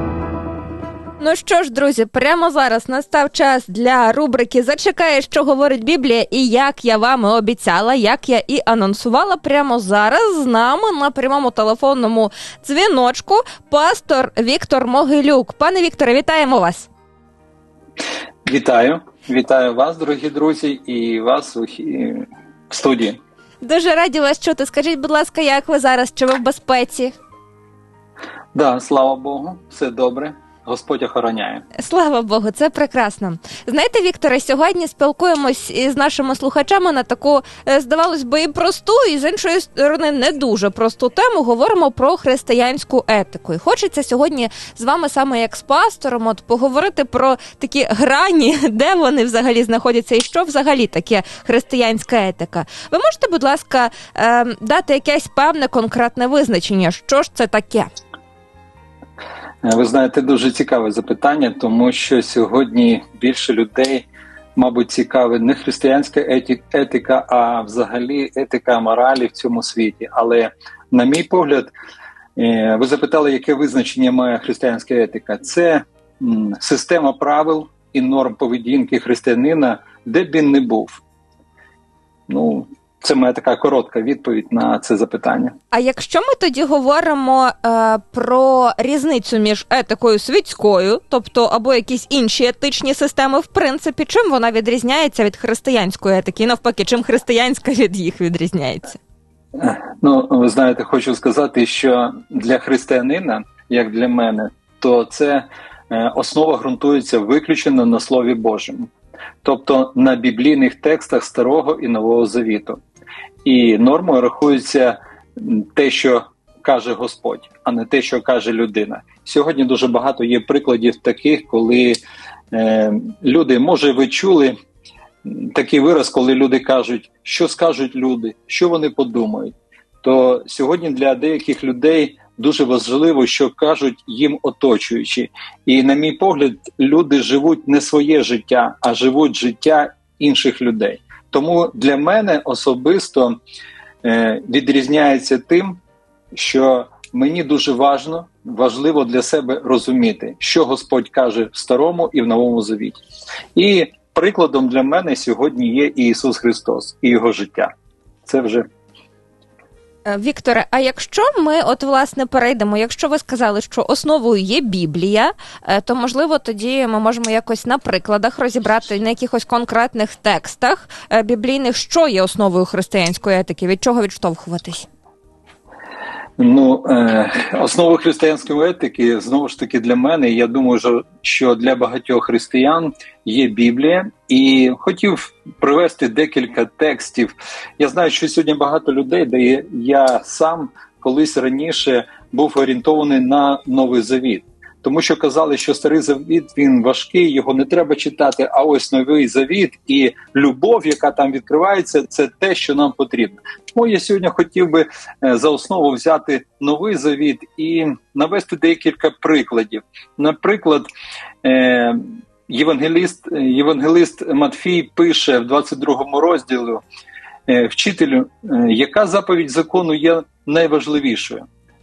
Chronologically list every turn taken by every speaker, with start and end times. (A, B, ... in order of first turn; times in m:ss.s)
0:01.2-0:16.9 A
0:18.5-0:23.2 B
0:23.6-0:27.1 A
0:28.5-0:31.6 B
0:31.8-0:57.9 A
0:59.6-1:11.7 B
1:12.4-1:21.0 B
1:22.3-1:25.5 B
1:25.7-1:39.0 A
1:39.5-1:48.9 B
1:49.4-1:52.8 B
1:53.4-2:02.0 B
2:02.5-2:04.6 B
2:05.2-2:23.4 B
2:24.0-2:25.8 B
2:26.3-2:33.0 B
2:33.6-2:37.7 B
2:38.2-2:38.7 B
2:40.0-2:54.9 A
2:56.4-3:30.9 B
3:31.4-3:36.8 B
3:37.5-3:41.4 B